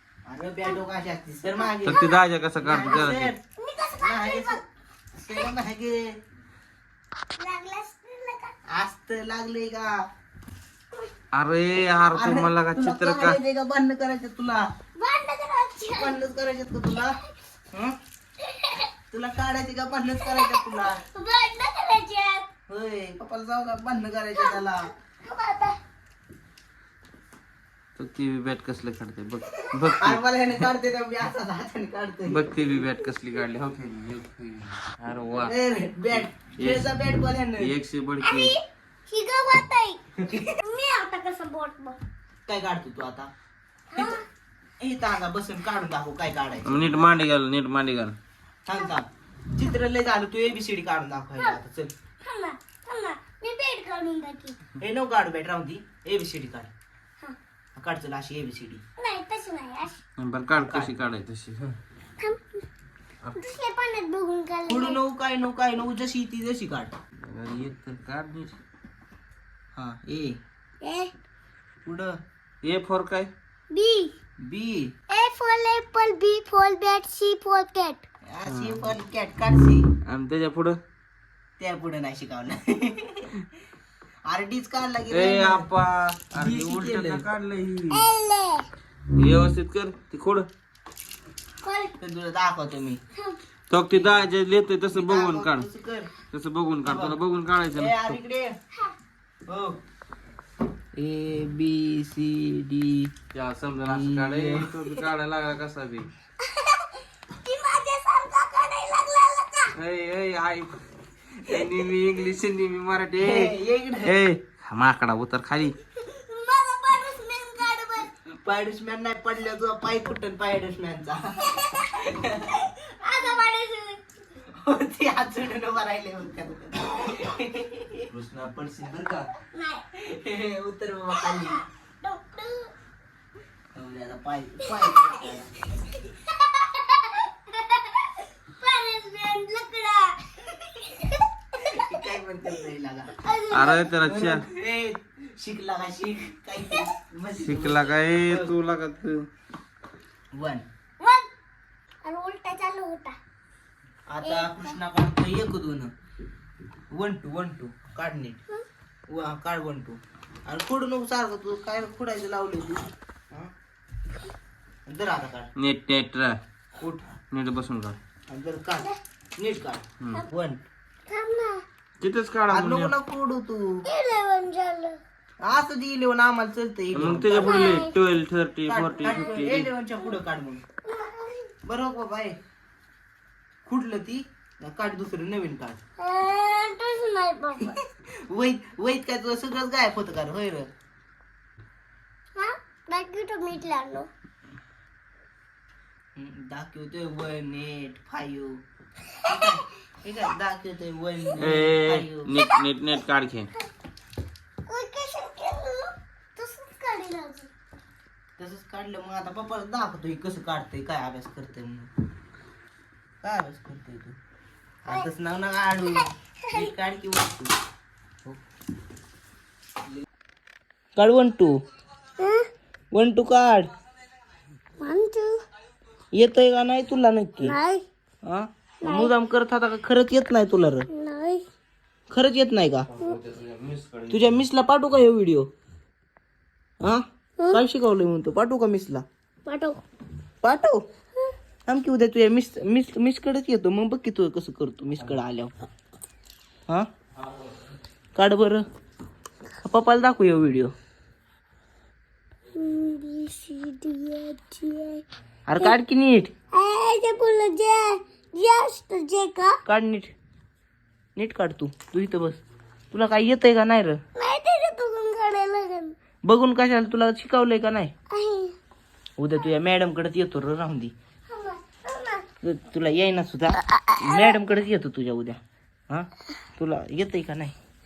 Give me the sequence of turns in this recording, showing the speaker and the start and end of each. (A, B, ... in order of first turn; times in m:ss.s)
0:00.2-0:03.4 A
0:01.8-0:02.1 B
0:01.8-0:03.3 C
0:03.6-0:04.6 B
0:04.0-0:04.6 A
0:05.2-0:06.1 A
0:07.4-0:08.6 B
0:08.7-0:10.0 A
0:11.3-0:13.4 C
0:12.1-0:14.7 A
0:15.0-0:16.2 B
0:16.0-0:17.1 A
0:17.7-0:18.0 A
0:18.4-0:18.9 B
0:19.1-0:21.0 A
0:20.2-0:22.5 B
0:22.7-0:24.9 A
0:24.4-0:24.7 B
0:25.2-0:25.8 B
0:28.0-0:30.2 C
0:30.0-0:32.5 A
0:32.3-0:35.5 C
0:35.4-0:37.7 A
0:36.3-0:37.0 C
0:37.6-0:38.5 C
0:38.2-0:42.0 B
0:42.5-0:43.3 A
0:43.9-0:44.2 A
0:43.9-0:44.2 B
0:44.8-0:47.1 A
0:46.6-0:48.2 C
0:48.6-0:51.9 A
0:52.2-0:54.6 B
0:54.8-0:56.7 A
0:57.8-0:58.8 A
0:59.0-1:00.0 B
1:00.2-1:01.8 C
1:00.6-1:00.9 A
1:02.2-1:02.6 B
1:03.3-1:05.0 B
1:04.7-1:06.9 A
1:07.2-1:08.6 C
1:09.7-1:10.4 A
1:10.8-1:11.1 B
1:11.8-1:12.1 A
1:12.6-1:13.3 C
1:13.7-1:14.1 B
1:14.4-1:14.9 A
1:15.1-1:18.0 B
1:18.3-1:19.9 A
1:18.4-1:18.9 C
1:20.0-1:20.8 C
1:21.6-1:23.4 A
1:24.2-1:25.7 A
1:25.1-1:28.1 C
1:26.3-1:27.3 A
1:27.9-1:28.7 B
1:29.2-1:30.5 C
1:31.6-1:32.0 B
1:32.0-1:33.0 A
1:33.1-1:33.4 B
1:33.7-1:35.6 C
1:33.9-1:34.2 A
1:34.9-1:36.1 A
1:36.2-1:38.2 C
1:36.8-1:37.2 A
1:37.7-1:38.5 A
1:39.5-1:39.8 A
1:40.9-1:43.1 A
1:43.3-1:46.1 C
1:43.8-1:45.0 A
1:46.4-1:49.7 B
1:49.8-1:50.8 C
1:51.3-1:55.8 C
1:53.2-1:54.1 A
1:55.9-1:58.1 B
1:58.4-2:02.6 A
2:01.5-2:04.0 B
2:04.6-2:08.1 A
2:08.1-2:09.3 C
2:09.5-2:09.8 B
2:09.9-2:11.6 A
2:11.2-2:12.7 B
2:13.7-2:15.5 A
2:16.1-2:18.0 B
2:18.5-2:21.2 B
2:21.5-2:23.1 A
2:23.2-2:23.9 B
2:23.5-2:24.4 C
2:24.0-2:28.5 A
2:27.4-2:29.3 C
2:30.3-2:30.6 A
2:31.0-2:31.3 B
2:32.0-2:33.2 B
2:34.1-2:35.9 A
2:34.2-2:34.7 B
2:36.9-2:38.4 A
2:39.1-2:43.5 A
2:44.8-2:45.5 A
2:45.6-2:46.4 C
2:46.8-2:47.0 A
2:47.3-2:48.0 C
2:48.3-2:50.6 A
2:50.0-2:50.2 C
2:51.1-2:51.6 B
2:52.0-2:52.9 C
2:52.5-2:53.8 A
2:53.8-2:55.0 B
2:55.4-2:57.8 A
2:56.9-2:59.7 C
2:57.4-2:57.9 B
2:58.7-3:00.6 A
3:00.8-3:01.5 B
3:01.6-3:02.4 A
3:03.6-3:05.8 A
3:06.0-3:07.7 B
3:07.6-3:10.7 A
3:12.4-3:14.1 B
3:16.1-3:18.6 A
3:19.2-3:22.3 A
3:21.4-3:23.5 C
3:24.6-3:27.5 B
3:28.4-3:31.9 A
3:33.2-3:34.2 A
3:34.8-3:37.5 A
3:35.9-3:36.7 B
3:41.0-3:41.6 A
3:42.2-3:42.5 B
3:42.9-3:43.7 A
3:44.8-3:45.4 B
3:46.1-3:47.5 A
3:47.4-3:47.8 B
3:48.2-3:50.9 A
3:48.8-3:49.1 B
3:50.9-3:51.4 B
3:52.1-3:52.9 A
3:52.9-3:54.4 C
3:54.1-3:55.5 A
3:56.8-3:59.0 A
3:59.4-3:59.8 B
4:00.4-4:00.8 A
4:01.7-4:05.5 A
4:08.2-4:08.6 A
4:09.6-4:10.7 A
4:12.5-4:15.0 B
4:15.5-4:16.3 A
4:16.5-4:19.6 B
4:19.6-4:20.1 A
4:21.2-4:24.0 A
4:24.2-4:25.9 B
4:26.2-4:27.9 A
4:28.1-4:28.6 B
4:29.2-4:30.9 A
4:31.3-4:32.2 B
4:32.4-4:37.5 A
4:33.7-4:34.4 B